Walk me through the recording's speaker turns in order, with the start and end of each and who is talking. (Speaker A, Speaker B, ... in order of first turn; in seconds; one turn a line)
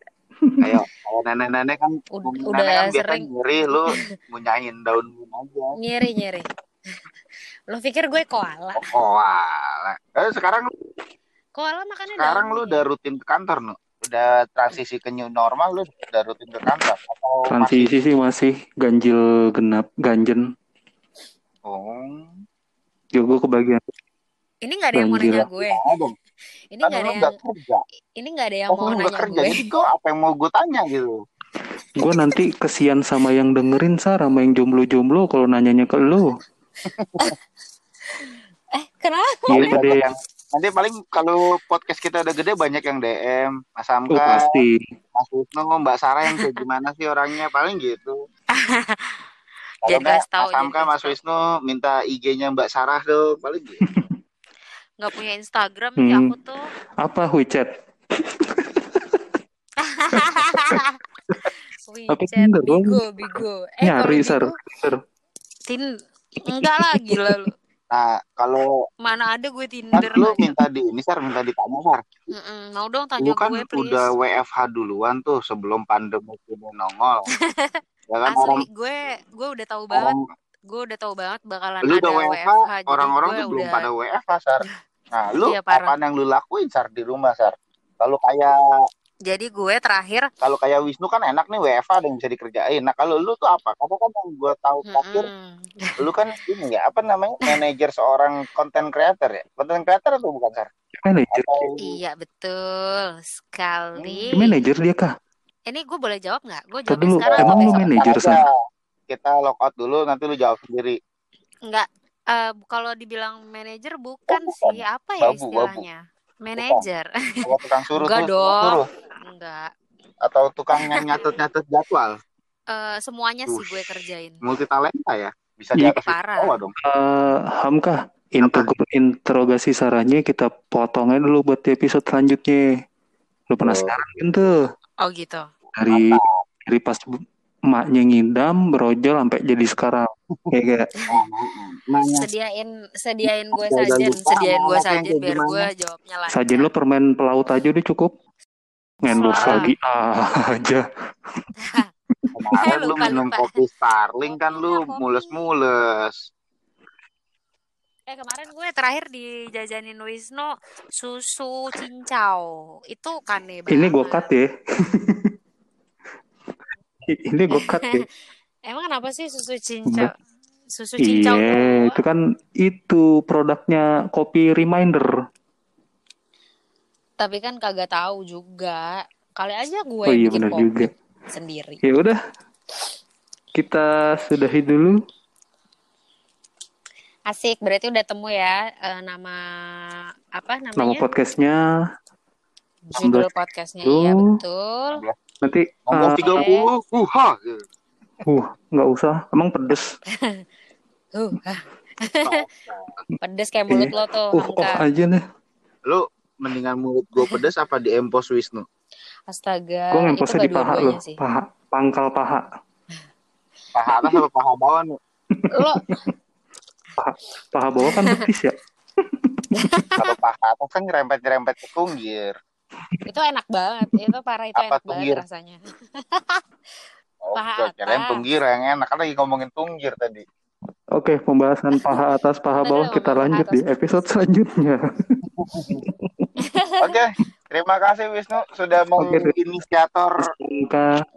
Speaker A: 0.4-0.8
Speaker B: 0.6-5.7
Speaker C: 2.1-3.2
Speaker C: 5.8-6.5
Speaker C: 7.7-8.9
Speaker B: 8.8-10.7
Speaker C: 11.6-12.8
Speaker B: 12.1-17.9
Speaker A: 17.5-20.4
Speaker B: 21.7-22.4
Speaker A: 23.1-23.8
Speaker C: 24.6-25.8
Speaker A: 24.9-25.4
Speaker B: 25.3-26.1
Speaker C: 26.7-27.4
Speaker B: 26.8-27.8
Speaker C: 28.2-29.6
Speaker B: 28.7-31.2
Speaker A: 31.9-36.4
Speaker B: 36.9-37.3
Speaker C: 38.2-39.8
Speaker A: 39.5-40.0
Speaker B: 39.5-44.6
Speaker A: 44.1-44.8
Speaker B: 45.1-48.2
Speaker C: 46.3-46.6
Speaker C: 48.5-49.2
Speaker B: 49.8-53.8
Speaker C: 49.8-51.1
Speaker C: 55.0-56.7
Speaker A: 56.0-56.3
Speaker A: 57.0-59.2
Speaker C: 59.8-61.0
Speaker A: 60.1-61.5
Speaker C: 61.9-64.5
Speaker A: 62.1-65.0
Speaker C: 66.5-67.5
Speaker A: 66.6-67.2
Speaker B: 67.9-68.8
Speaker C: 69.0-70.5
Speaker B: 69.9-72.0
Speaker C: 72.3-74.1
Speaker B: 73.2-77.2
Speaker C: 77.4-80.1
Speaker B: 78.1-78.6
Speaker B: 79.9-80.2
Speaker C: 80.7-83.9
Speaker B: 81.8-88.5
Speaker C: 85.4-85.9
Speaker C: 89.3-90.3
Speaker B: 90.4-95.3
Speaker C: 94.9-96.0
Speaker B: 96.0-100.7
Speaker A: 101.0-101.6
Speaker B: 101.3-102.0
Speaker C: 101.8-104.6
Speaker B: 104.0-104.3
Speaker A: 104.3-105.1
Speaker C: 105.7-108.1
Speaker A: 106.9-108.4
Speaker B: 107.2-108.5
Speaker B: 109.1-111.0
Speaker C: 111.7-119.7
Speaker B: 114.3-115.8
Speaker B: 116.5-116.8
Speaker B: 117.4-118.8
Speaker B: 120.2-122.1
Speaker C: 120.7-121.3
Speaker C: 122.7-124.4
Speaker B: 123.5-123.7
Speaker B: 124.4-126.7
Speaker C: 125.8-126.6
Speaker A: 126.8-132.6
Speaker B: 128.4-128.7
Speaker A: 133.5-134.5
Speaker B: 133.6-133.9
Speaker C: 135.0-135.5
Speaker A: 135.8-140.9
Speaker B: 135.9-136.4
Speaker B: 141.1-142.3
Speaker C: 142.1-146.7
Speaker B: 143.5-145.7
Speaker A: 146.3-148.1
Speaker A: 149.0-150.8
Speaker C: 149.1-149.7
Speaker B: 149.3-149.7
Speaker C: 151.6-151.9
Speaker B: 152.3-156.3
Speaker C: 152.6-153.5
Speaker C: 154.3-155.4
Speaker C: 158.1-164.3
Speaker A: 163.7-165.3
Speaker A: 167.1-168.1
Speaker C: 167.5-168.0
Speaker C: 168.7-170.1
Speaker C: 170.7-172.0
Speaker A: 171.0-175.1
Speaker C: 177.2-181.8
Speaker A: 180.1-180.9
Speaker A: 181.8-182.2
Speaker A: 183.6-184.9
Speaker C: 187.3-191.0
Speaker A: 190.8-191.6
Speaker C: 192.9-195.0
Speaker A: 192.9-193.3
Speaker A: 193.8-194.3
Speaker A: 195.4-196.5
Speaker B: 195.9-197.6
Speaker C: 196.1-196.7
Speaker A: 198.2-199.9
Speaker C: 200.1-200.4
Speaker C: 201.1-202.4
Speaker B: 202.2-203.0
Speaker C: 203.2-204.8
Speaker A: 203.7-205.2
Speaker B: 205.9-208.7
Speaker C: 209.3-211.2
Speaker A: 209.9-212.4
Speaker B: 213.7-214.9
Speaker A: 215.3-216.0
Speaker C: 215.5-215.9
Speaker A: 217.0-218.5
Speaker C: 217.8-218.2
Speaker C: 219.6-220.1
Speaker B: 220.0-222.3
Speaker C: 223.1-226.4
Speaker B: 224.6-225.2
Speaker B: 227.2-230.2
Speaker C: 227.3-228.2
Speaker A: 230.9-236.3
Speaker C: 231.7-232.0
Speaker C: 232.6-233.6
Speaker B: 235.3-235.8
Speaker C: 236.4-237.0
Speaker B: 236.8-240.2
Speaker A: 239.0-239.3
Speaker A: 240.2-240.9